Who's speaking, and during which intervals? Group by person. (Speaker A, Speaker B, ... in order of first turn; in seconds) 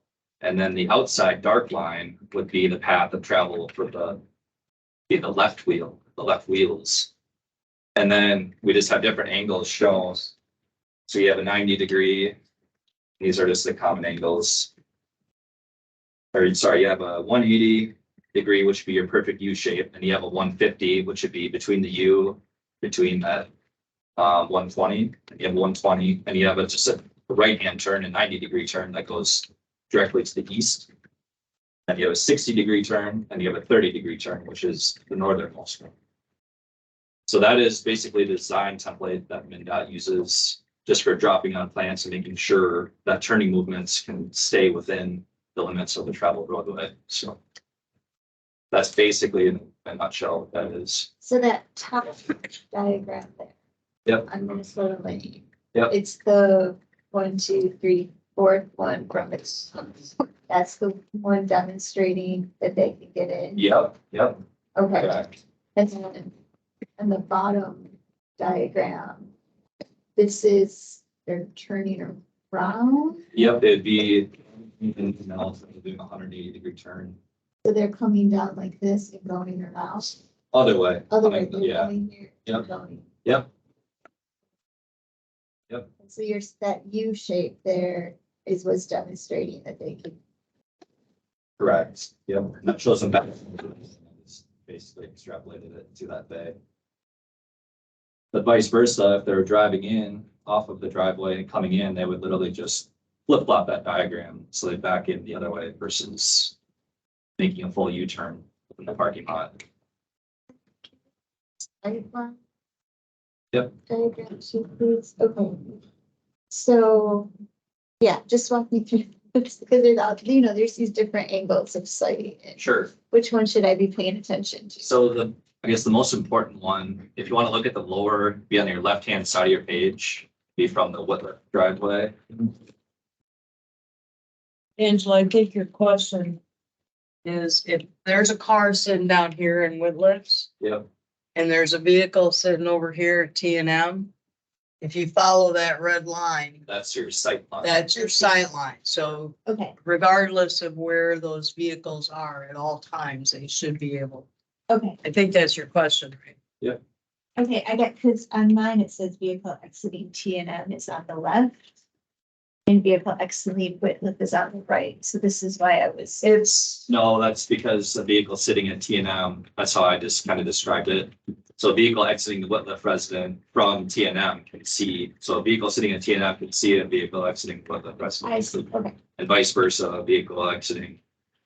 Speaker A: 0.4-4.2, 5.1-7.1, 8.0-10.3, 11.1-12.3, 13.2-14.7, 16.3-23.5, 24.2-30.9, 31.9-35.9, 37.3-47.4, 48.7-51.1, 63.6-64.4, 65.0-65.4, 73.3-77.2, 80.5-81.9, 91.6-96.6, 98.3-106.5, 107.4-109.6, 122.6-122.9, 124.8-132.5, 140.6-140.8, 146.7-147.8, 166.9-181.0
Speaker B: 51.2-53.5, 54.3-63.6, 64.8-65.2, 65.8-66.3, 67.0-69.3, 70.2-73.2, 77.6-80.2, 81.1-83.0, 86.0-90.2, 111.6-112.4, 113.9-115.8, 116.5-117.3, 118.0-122.6, 123.1-124.9, 149.5-149.8, 154.7-155.0, 157.4-161.6, 162.7-166.3, 178.2-179.0
Speaker C: 134.8-136.4, 137.2-140.5, 141.3-144.1, 144.8-146.7, 147.6-154.3, 155.0-156.3, 166.2-166.9